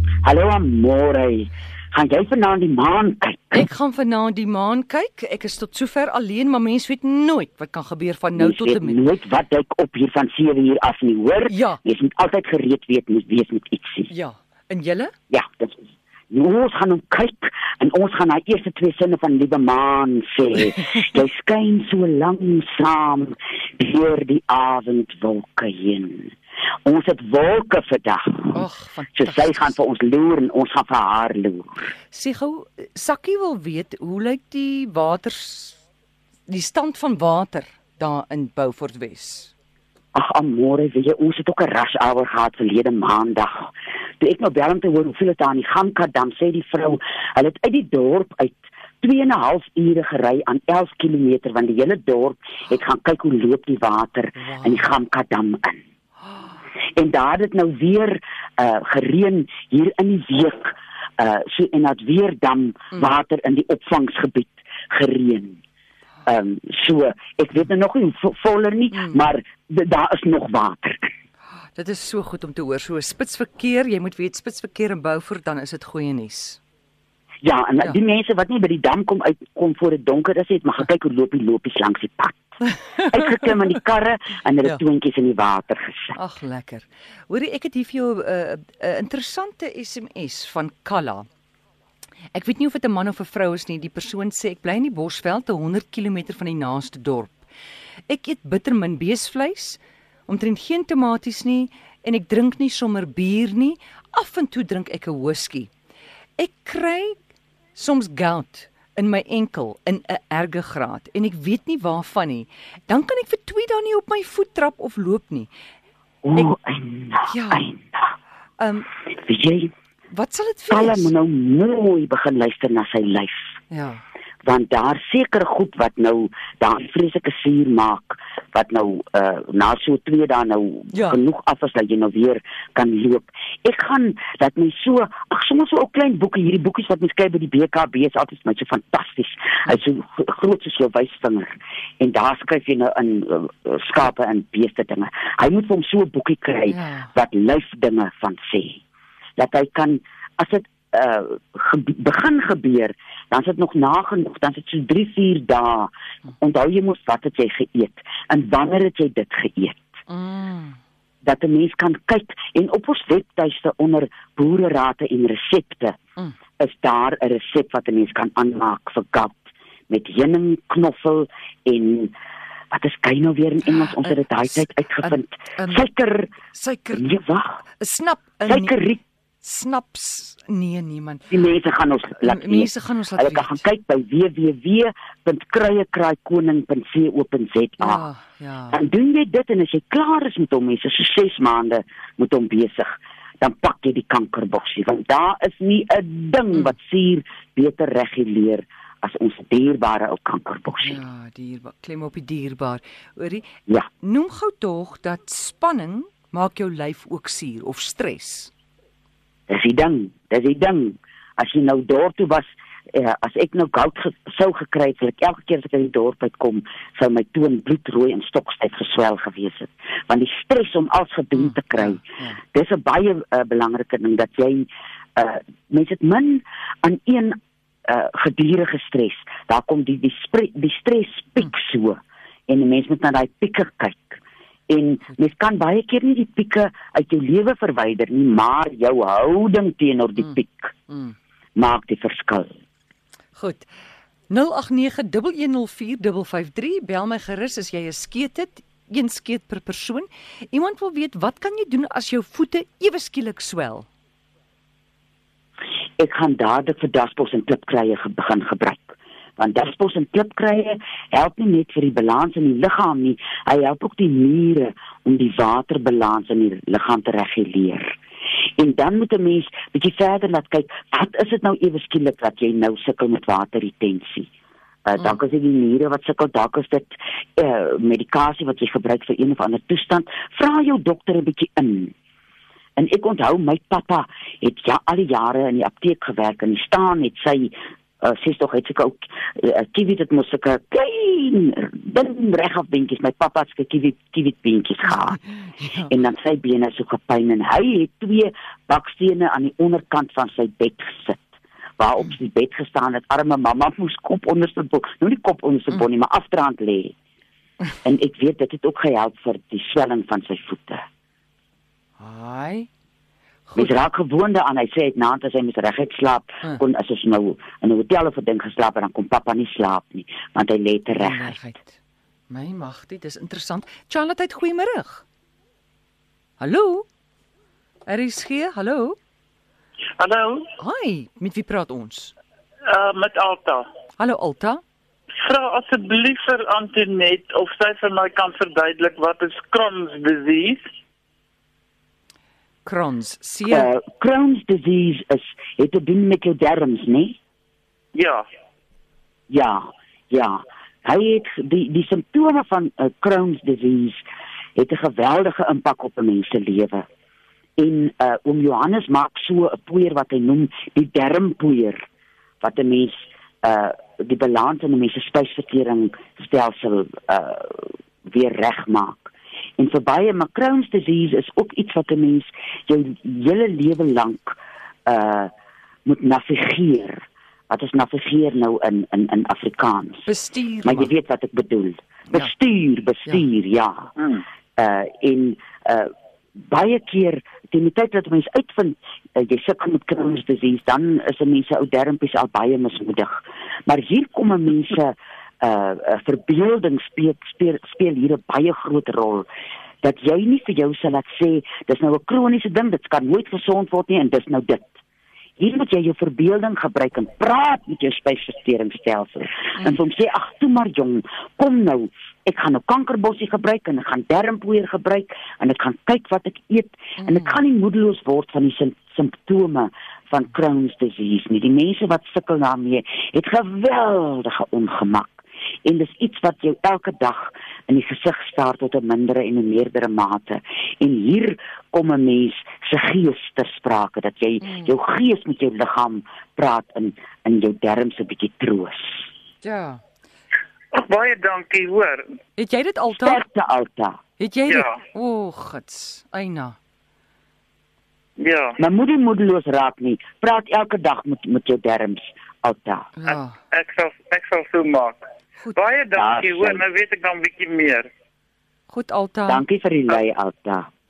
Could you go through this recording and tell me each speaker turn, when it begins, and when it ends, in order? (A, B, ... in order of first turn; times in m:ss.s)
0:00.2-0:03.6 A
0:03.5-0:09.0 B
0:08.3-0:14.1 A
0:11.5-0:11.8 B
0:14.1-0:15.1 B
0:15.3-0:26.3 A
0:26.8-0:28.6 A
0:28.5-0:29.8 B
0:29.2-0:31.8 A
0:32.1-0:35.8 B
0:36.5-0:39.5 B
0:40.1-0:55.8 A
0:54.4-0:54.9 B
0:56.9-1:05.6 A
1:06.2-1:11.1 A
1:08.9-1:09.2 B
1:11.7-1:16.6 B
1:17.4-1:22.4 A
1:22.6-1:23.2 B
1:23.1-1:26.2 A
1:26.1-1:31.2 B
1:32.3-1:37.4 B
1:38.1-1:45.7 B
1:46.4-1:47.2 B
1:47.7-1:55.5 B
1:56.2-1:58.1 A
1:57.3-1:57.7 B
1:58.6-1:58.9 B
1:59.1-1:59.7 A
2:00.1-2:01.1 B
2:00.7-2:03.5 A
2:03.7-2:04.0 B
2:04.4-2:28.8 A
2:10.9-2:11.2 B
2:26.7-2:27.1 B
2:29.4-2:39.8 A
2:40.1-2:40.8 B
2:41.2-2:46.0 A
2:46.6-2:52.1 A
2:52.7-2:56.3 A
2:53.7-2:55.8 B
2:56.5-2:57.1 B
2:56.9-2:57.6 A
2:57.7-2:58.7 B
2:58.5-2:59.0 A
2:59.4-3:01.3 B
3:01.3-3:08.1 A
3:02.2-3:03.6 B
3:07.8-3:08.8 B
3:08.7-3:21.0 A
3:20.8-3:23.5 B
3:24.0-3:28.5 B
3:29.5-4:00.7 A
3:41.3-3:42.4 B
4:00.9-4:01.2 B
4:01.6-4:02.5 A
4:03.3-4:03.7 B
4:04.3-4:13.9 B
4:16.0-4:27.9 A
4:28.6-4:34.3 A
4:34.8-4:41.9 A
4:42.8-4:55.2 A
4:54.9-4:55.9 B
4:55.9-5:01.3 A
5:01.8-5:06.9 A
5:07.8-5:10.8 A
5:12.0-5:12.7 B
5:13.5-5:13.8 B
5:13.6-5:21.3 A
5:20.9-5:21.8 B
5:22.3-5:25.0 B
5:26.4-5:26.9 B
5:27.8-5:29.0 B
5:30.0-5:30.5 C
5:30.6-5:32.1 B
5:32.7-5:33.6 C
5:34.0-5:34.6 B
5:35.2-5:40.6 C
5:42.6-5:43.7 B
5:43.5-5:47.2 A
5:47.9-5:48.2 C
5:49.3-5:54.0 A
5:54.6-5:56.8 A
5:57.6-6:01.8 A
6:02.4-6:15.3 A
6:15.8-6:20.1 A
6:20.0-6:20.9 B
6:20.6-6:23.9 A
6:24.6-6:39.2 A
6:39.8-6:44.7 A
6:45.4-7:19.0 A
6:57.0-6:57.4 B
7:14.4-7:14.7 B
7:19.4-7:19.8 B
7:20.7-7:22.1 C
7:22.4-7:23.2 B
7:22.9-7:24.0 A
7:24.2-7:26.6 B
7:24.5-7:24.8 C
7:28.2-7:28.6 C
7:28.6-7:32.9 A
7:33.0-7:33.4 B
7:33.5-7:35.0 C
7:35.5-7:37.9 C
7:35.9-7:36.6 A
7:38.7-7:39.4 B
7:39.2-7:40.7 A